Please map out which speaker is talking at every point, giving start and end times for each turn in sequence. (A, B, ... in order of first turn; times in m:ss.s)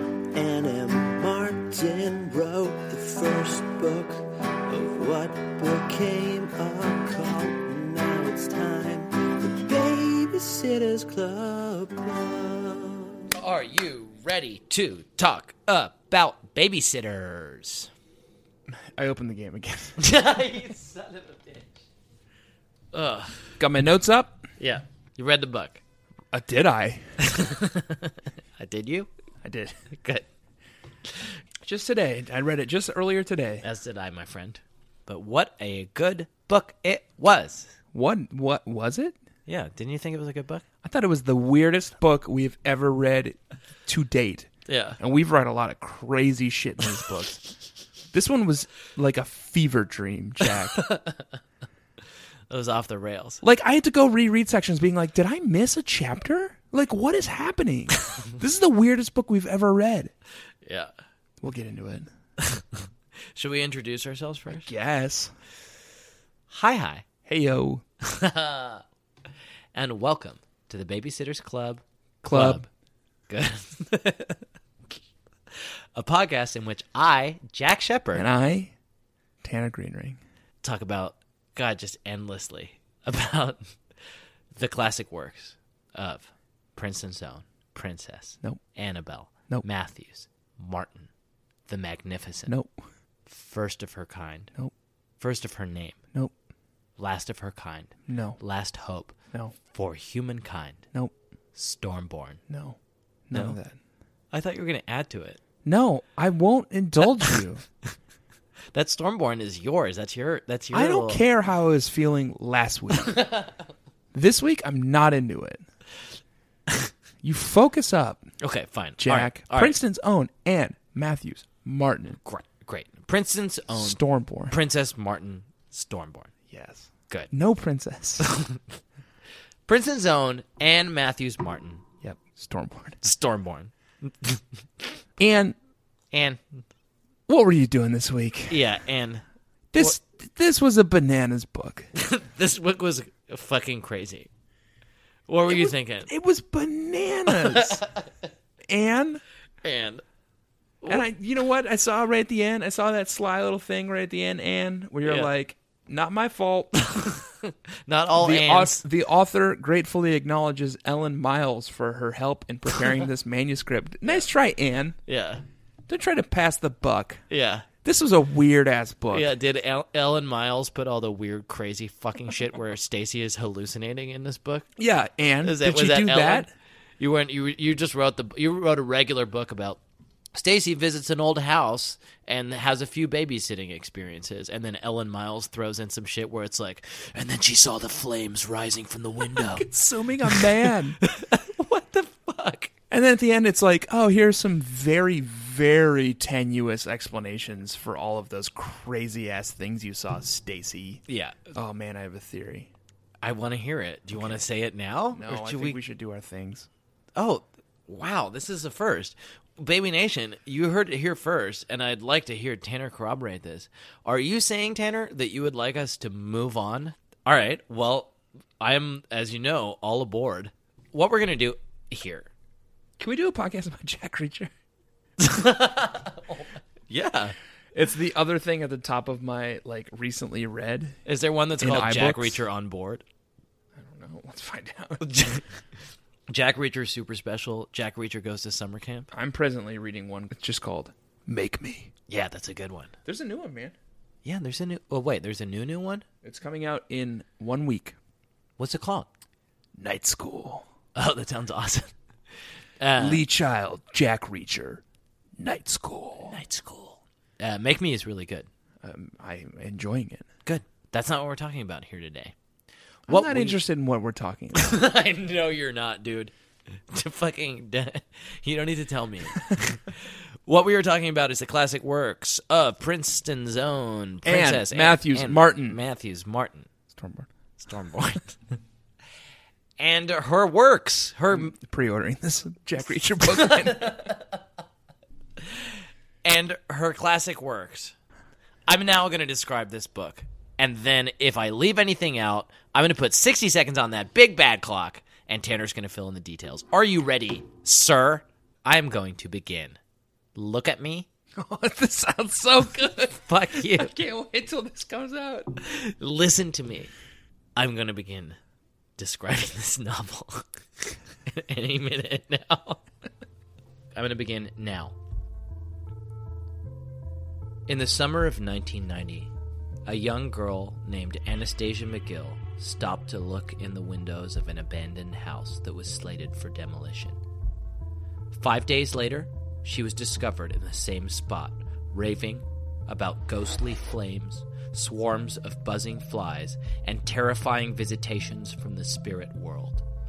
0:00.4-0:03.9 A
0:00.6-0:00.9 B
0:02.8-0:04.1 B
0:04.7-0:17.9 B
0:04.9-0:08.9 A
0:09.6-0:11.8 A
0:18.7-0:20.0 C
0:20.0-0:21.8 B
0:22.9-0:23.4 B
0:23.6-0:24.5 C
0:24.6-0:25.8 B
0:26.3-0:27.0 C
0:27.2-0:29.1 B
0:29.4-0:29.8 C
0:29.9-0:30.3 B
0:31.6-0:33.6 C
0:33.6-0:37.7 B
0:37.9-0:39.2 C
0:39.5-0:40.6 B
0:40.8-0:47.4 C
0:44.7-0:45.0 B
0:48.1-0:50.8 C
0:50.7-0:51.3 B
0:52.5-0:53.4 B
0:53.4-1:00.1 C
1:00.6-1:00.9 B
1:01.4-1:02.1 C
1:02.4-1:04.7 B
1:04.5-1:05.4 C
1:06.5-1:07.0 B
1:07.3-1:07.8 C
1:08.0-1:08.8 B
1:09.7-1:12.7 B
1:12.2-1:12.6 C
1:13.3-1:14.4 B
1:15.5-1:18.3 B
1:18.2-1:18.7 C
1:19.4-1:20.2 C
1:20.6-1:23.6 B
1:24.5-1:31.1 B
1:31.7-1:32.5 B
1:32.5-1:32.7 C
1:33.3-1:34.5 B
1:35.2-1:36.0 B
1:37.0-1:40.8 B
1:38.1-1:38.4 C
1:41.6-1:42.4 B
1:42.5-1:43.8 C
1:44.3-1:45.4 B
1:45.6-1:47.6 C
1:48.7-1:51.2 B
1:50.7-1:53.2 C
1:53.0-1:53.6 B
1:54.1-1:55.6 C
1:57.2-1:58.3 C
1:58.4-1:59.8 B
1:59.0-2:02.2 C
2:02.2-2:06.3 B
2:03.7-2:04.6 C
2:06.5-2:08.3 C
2:08.2-2:08.6 B
2:09.7-2:11.8 B
2:12.0-2:13.0 C
2:13.0-2:14.9 B
2:15.2-2:15.6 C
2:16.1-2:16.4 B
2:17.3-2:18.6 C
2:18.5-2:19.2 B
2:19.7-2:21.9 C
2:22.0-2:24.3 B
2:25.3-2:26.1 B
2:25.5-2:27.8 C
2:27.3-2:28.1 B
2:28.7-2:29.2 C
2:29.6-2:30.0 B
2:30.9-2:36.7 C
2:36.8-2:38.8 B
2:38.1-2:45.0 C
2:45.1-2:45.4 B
2:45.9-2:47.2 C
2:47.3-2:47.7 B
2:47.8-2:49.3 C
2:49.1-2:54.7 B
2:54.8-2:56.5 C
2:55.4-2:56.5 B
2:57.0-2:59.8 B
3:00.4-3:09.7 B
3:09.3-3:11.0 C
3:10.2-3:12.7 B
3:12.9-3:22.7 C
3:21.1-3:21.4 B
3:23.2-3:25.8 B
3:25.1-3:26.7 C
3:27.2-3:42.3 B
3:43.0-3:44.5 C
3:45.2-3:47.4 B
3:47.7-3:51.0 C
3:51.1-3:53.0 B
3:51.6-3:52.4 C
3:53.7-3:55.1 C
3:55.0-3:55.5 B
3:56.3-3:59.1 B
3:59.1-4:01.9 C
4:02.1-4:02.9 B
4:03.1-4:03.8 C
4:04.2-4:06.0 B
4:06.2-4:08.0 C
4:08.6-4:09.1 B
4:09.8-4:10.6 C
4:11.0-4:11.9 B
4:12.8-4:13.2 B
4:13.0-4:14.8 C
4:15.4-4:16.4 C
4:16.3-4:18.5 B
4:18.8-4:20.3 C
4:20.5-4:22.4 B
4:23.1-4:23.6 B
4:23.1-4:24.7 C
4:24.5-4:36.7 B
4:34.2-4:35.8 C
4:36.9-4:37.3 C
4:37.6-4:38.4 B
4:39.8-4:41.5 B
4:41.3-4:44.1 C
4:43.3-4:44.4 B
4:45.4-4:45.7 B
4:46.2-4:48.0 B
4:48.7-4:59.8 B
5:00.4-5:01.1 B
5:01.4-5:05.6 C
5:03.1-5:04.0 B
5:05.6-5:06.9 B
5:07.6-5:08.4 B
5:09.0-5:12.8 B
5:14.0-5:15.0 B
5:17.7-5:19.3 B
5:19.9-5:27.2 B
5:28.3-5:39.8 B